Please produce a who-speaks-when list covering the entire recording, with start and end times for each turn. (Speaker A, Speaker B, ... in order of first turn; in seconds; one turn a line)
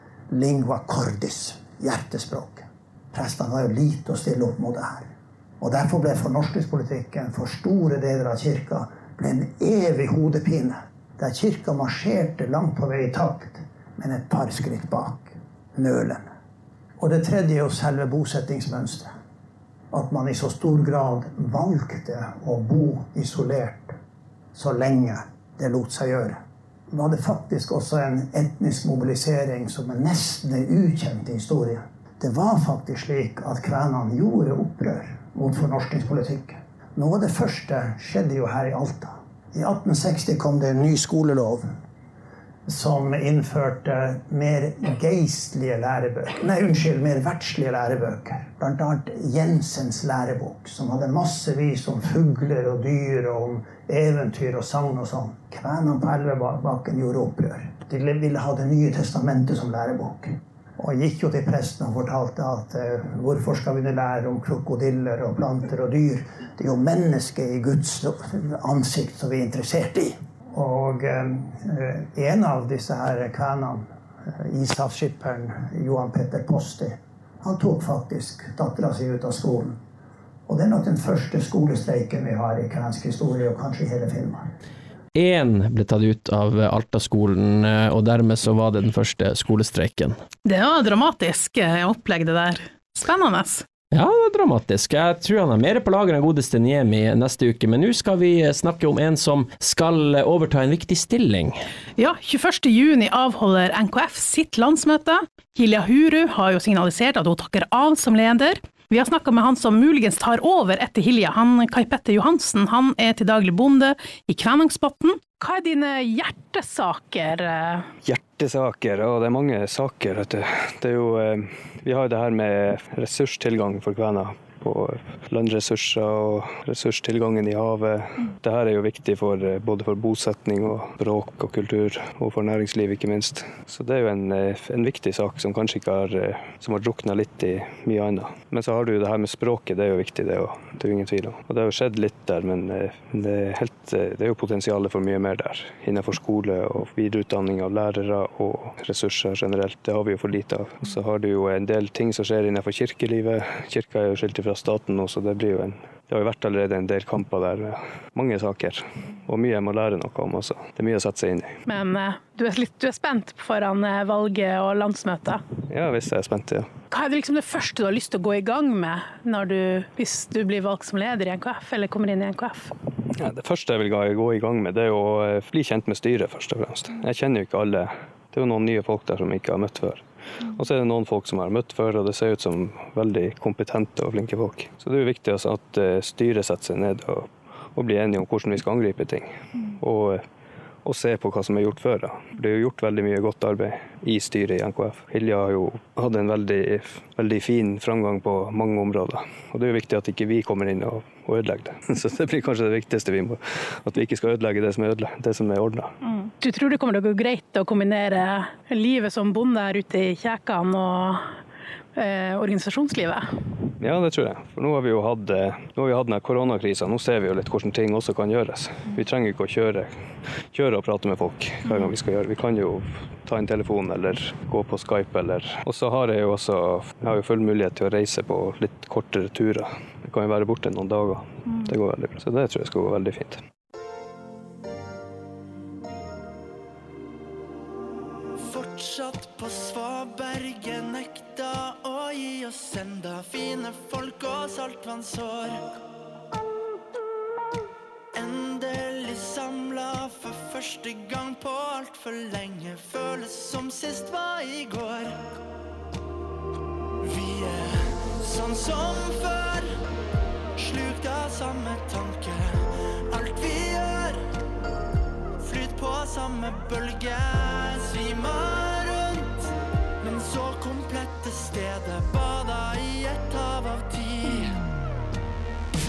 Speaker A: 0.3-16.3
Speaker A: 17.0-19.1
Speaker A: 19.9-23.9
Speaker A: 24.5-41.7
Speaker A: 42.7-79.8
Speaker A: 80.5-84.5
Speaker B: 85.2-90.2
Speaker C: 90.5-93.7
Speaker B: 93.9-101.6
Speaker C: 102.0-117.9
Speaker D: 118.0-161.6
Speaker C: 161.7-165.4
Speaker D: 165.7-166.7
Speaker C: 166.9-172.7
Speaker D: 173.2-190.2
Speaker D: 190.8-205.9
Speaker C: 206.1-211.3
Speaker C: 212.0-213.3
Speaker D: 213.8-219.9
Speaker D: 220.5-233.4
Speaker E: 238.4-245.7
Speaker E: 248.1-255.3
Speaker E: 257.0-259.8
Speaker E: 260.6-264.3
Speaker E: 265.4-274.7